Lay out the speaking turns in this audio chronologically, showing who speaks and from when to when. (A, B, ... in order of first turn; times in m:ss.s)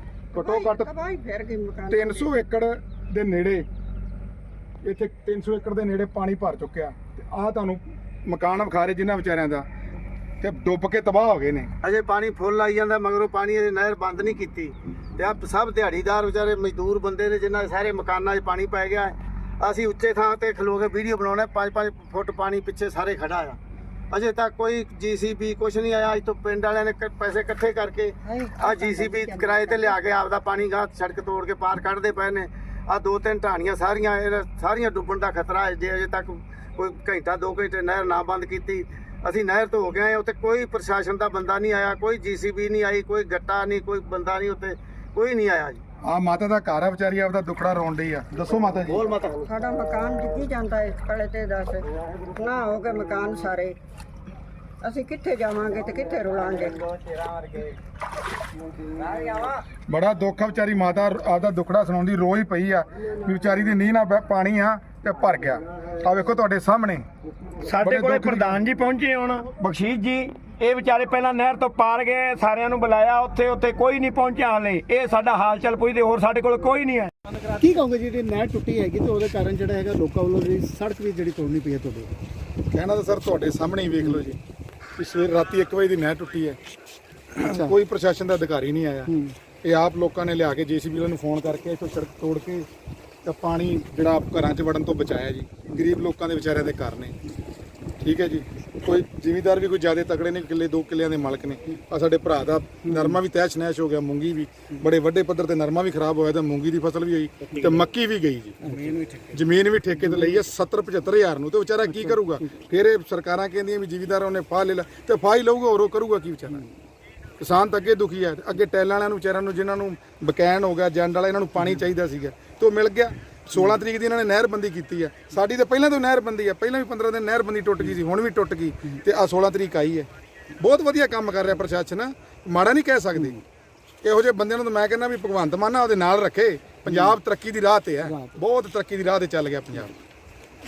0:00.3-0:00.9 A
0:00.3-0:02.4 B
0:01.9-0:03.6 A
0:04.8-0:09.6 A
0:10.4-0:11.7 A
0:11.8-0:23.6 C
0:24.1-0:45.8 C
0:28.3-0:30.0 B
0:46.0-0:49.0 A
0:48.9-0:49.5 C
0:49.4-0:53.8 B
0:54.8-0:57.5 B
0:59.9-1:07.0 A
1:07.6-1:17.1 D
1:07.8-1:08.6 A
1:17.5-1:22.1 E
1:22.7-1:24.4 A
1:25.0-1:26.6 A
1:27.4-1:29.1 A
1:27.5-1:27.7 E
1:29.1-1:29.3 E
1:29.6-1:32.7 A
1:33.2-1:37.1 A
1:38.0-1:48.6 A
1:48.6-1:49.0 E
1:48.7-1:49.1 C
1:49.3-1:56.6 A
1:50.0-1:50.3 E
1:51.9-1:52.3 E
1:57.4-2:10.1 A
2:10.6-2:13.4 A
2:14.0-2:19.9 A
2:18.1-2:18.3 E